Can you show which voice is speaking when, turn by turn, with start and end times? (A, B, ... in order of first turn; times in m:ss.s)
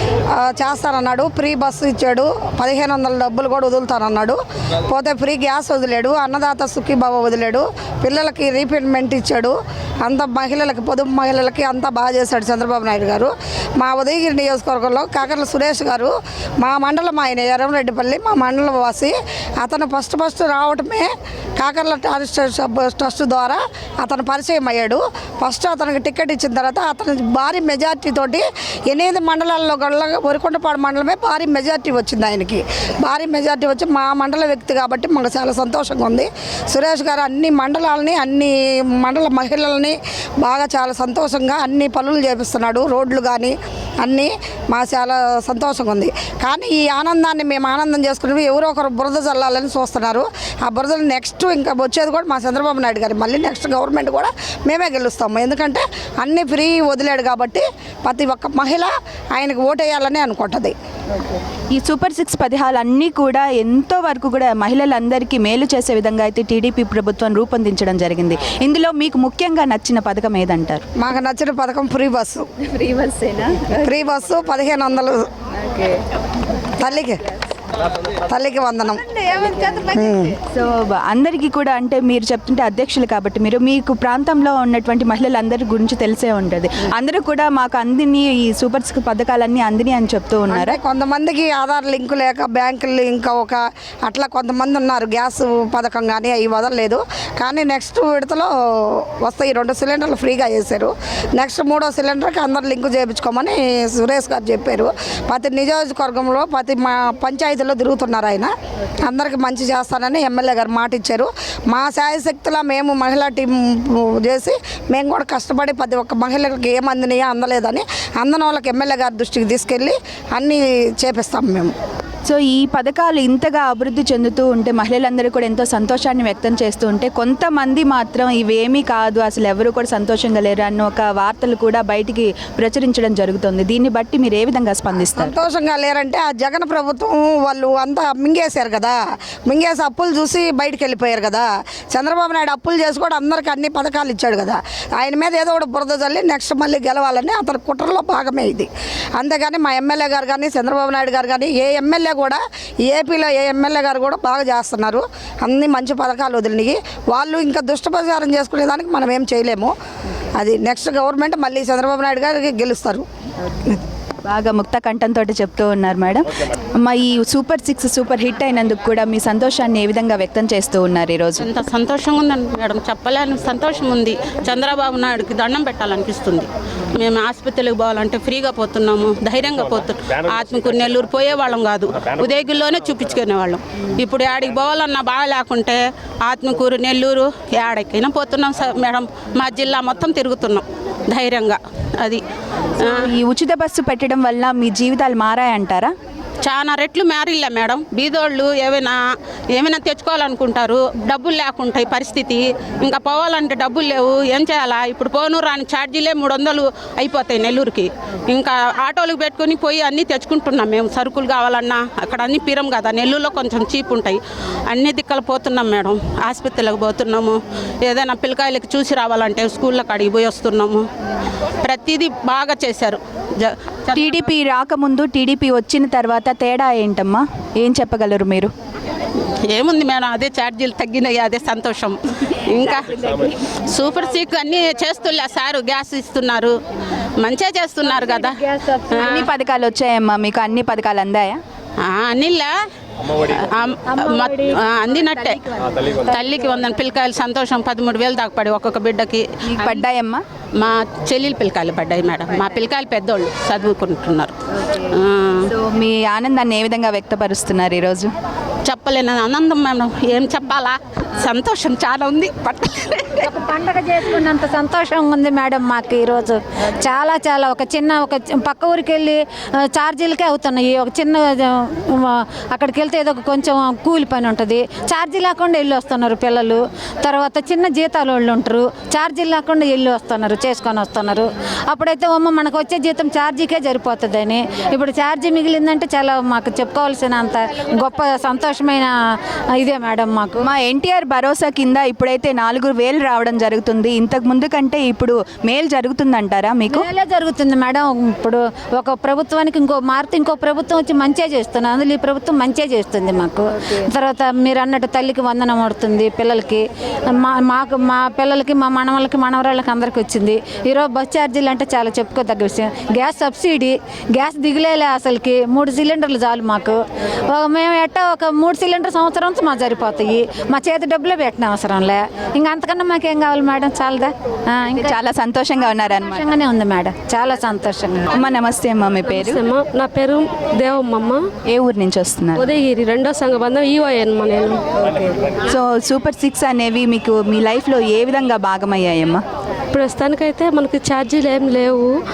0:00.4-1:00.8 A
1:01.7-1:10.9 B
1:11.0-1:12.5 A
1:12.7-1:13.9 B
1:13.8-1:15.2 A
1:15.6-1:15.9 B
1:16.8-1:17.2 A
1:18.3-1:20.4 A
1:19.3-1:30.8 B
1:30.5-2:01.7 A
2:02.2-2:15.4 B
2:15.2-2:39.7 A
2:40.3-2:43.0 A
2:44.2-2:51.4 B
2:51.6-2:56.5 C
2:57.0-3:05.8 C
3:06.3-3:11.5 C
3:12.8-3:15.9 B
3:16.5-3:18.9 C
3:19.6-3:34.2 C
3:34.7-3:37.3 C
3:37.9-3:40.8 C
3:41.7-3:43.5 C
3:43.9-3:48.5 B
3:49.5-3:51.9 C
3:52.5-3:52.8 C
3:53.7-3:56.5 C
3:57.2-3:58.4 C
3:58.9-4:01.4 B
4:02.0-4:02.5 C
4:03.5-4:05.4 C
4:06.1-4:09.7 C
4:09.5-4:10.2 B
4:10.6-4:14.3 C
4:15.5-4:18.1 B
4:18.7-4:20.7 C
4:21.2-4:23.2 C
4:23.2-4:50.4 D
4:50.4-4:56.9 B
4:56.7-5:25.0 D
5:24.7-5:26.3 B
5:26.1-5:28.1 D
5:28.1-5:29.4 B
5:29.0-5:31.2 E
5:31.5-5:32.5 B
5:32.4-5:34.6 E
5:35.0-5:39.2 B
5:39.7-5:41.9 E